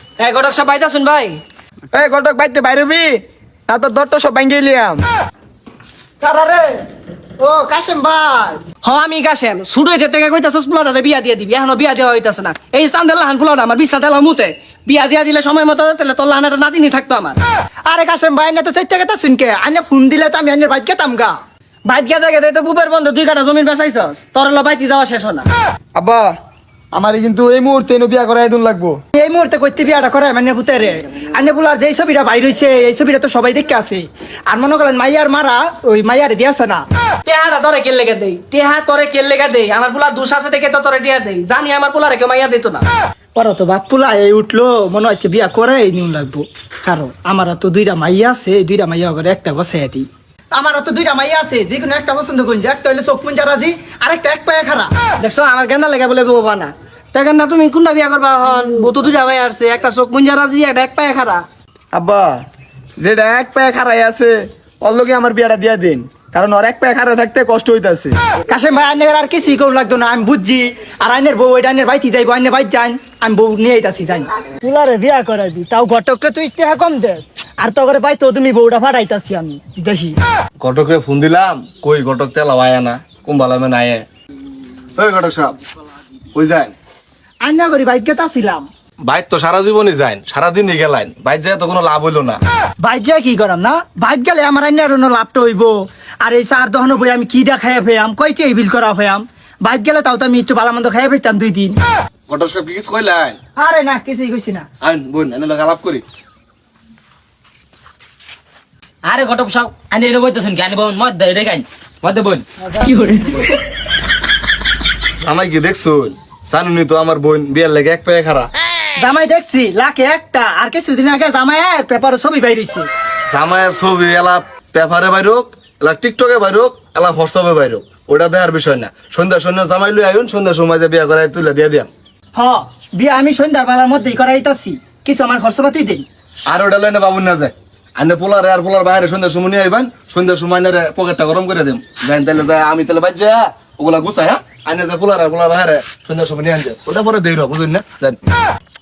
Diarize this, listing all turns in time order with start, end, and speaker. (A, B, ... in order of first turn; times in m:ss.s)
0:00.2-0:01.4 A
0:01.9-0:05.0 B
0:06.2-0:06.8 C
0:07.4-0:08.6 C
0:08.8-0:17.4 A
0:17.9-0:21.4 C
0:21.9-0:25.5 A
0:26.0-0:26.3 B
0:26.9-0:29.0 B
0:29.1-0:36.8 C
0:37.3-0:42.9 A
0:43.4-0:54.9 C
0:55.2-1:01.4 A
1:01.9-1:02.4 B
1:03.0-1:08.2 B
1:08.5-1:20.2 C
1:20.6-1:24.0 D
1:25.0-1:25.6 D
1:26.3-1:26.7 D
1:27.4-1:28.7 C
1:29.0-1:32.4 D
1:32.8-1:41.8 C
1:42.3-1:43.4 D
1:43.6-1:44.7 C
1:44.8-1:46.0 D
1:49.0-1:53.4 E
1:55.2-1:58.5 D
1:59.0-2:02.9 C
2:03.3-2:11.9 D
2:12.3-2:16.0 C
2:16.5-2:28.2 D